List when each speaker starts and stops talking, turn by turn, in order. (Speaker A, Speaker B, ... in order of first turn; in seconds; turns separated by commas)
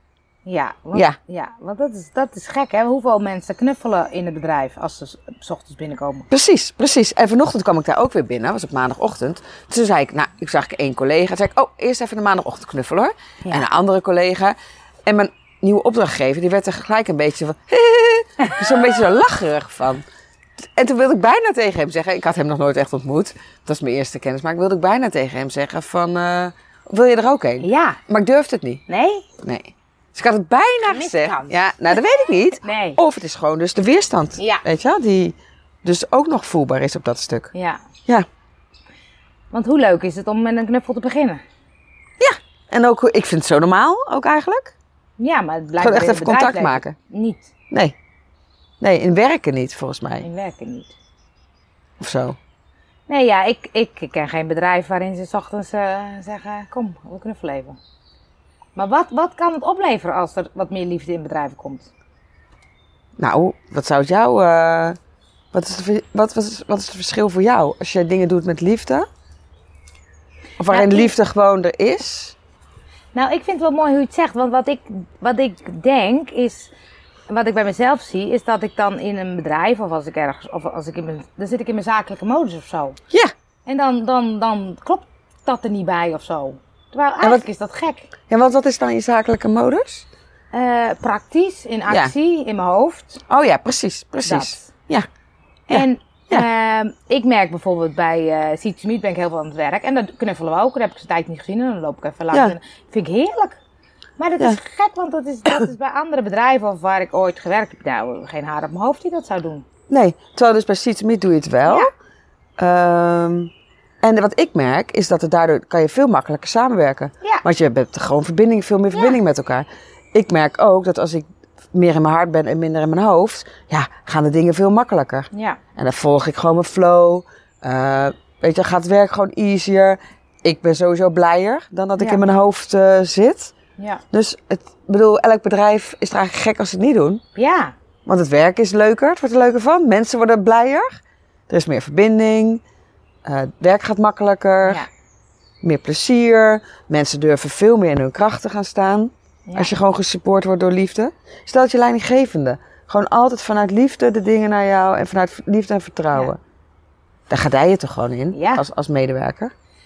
Speaker A: 0.5-6.3, Speaker B: 6.3-20.0, Speaker B: 20.6-28.8, Speaker A: 27.6-28.0, Speaker A: 28.9-29.3, Speaker B: 29.4-37.5, Speaker A: 30.9-31.9, Speaker A: 32.6-33.0, Speaker A: 34.4-34.6, Speaker A: 37.5-37.8, Speaker A: 39.5-41.4, Speaker B: 42.2-44.7, Speaker A: 45.2-47.5, Speaker B: 45.8-47.0, Speaker B: 47.7-48.0, Speaker B: 48.8-50.3, Speaker A: 50.2-51.0, Speaker B: 52.0-52.4, Speaker A: 53.1-57.8, Speaker A: 58.8-61.9, Speaker B: 63.2-65.0, Speaker B: 65.5-69.1, Speaker B: 70.6-72.3, Speaker A: 70.7-71.1, Speaker A: 73.1-76.7, Speaker A: 77.3-83.0, Speaker A: 83.7-88.1, Speaker B: 88.3-90.1, Speaker A: 90.5-93.2, Speaker B: 91.9-92.1, Speaker B: 93.3-95.1, Speaker A: 94.2-94.7, Speaker A: 95.7-103.6, Speaker B: 95.7-96.5, Speaker A: 104.2-109.7, Speaker B: 109.9-111.9, Speaker A: 111.7-111.9, Speaker B: 112.6-133.5, Speaker A: 125.3-125.6, Speaker A: 132.0-132.2, Speaker B: 134.1-137.2, Speaker A: 137.4-137.7, Speaker B: 138.1-142.6, Speaker B: 143.2-144.9, Speaker B: 145.6-156.4, Speaker A: 149.5-149.8, Speaker B: 157.3-159.5, Speaker A: 158.3-158.7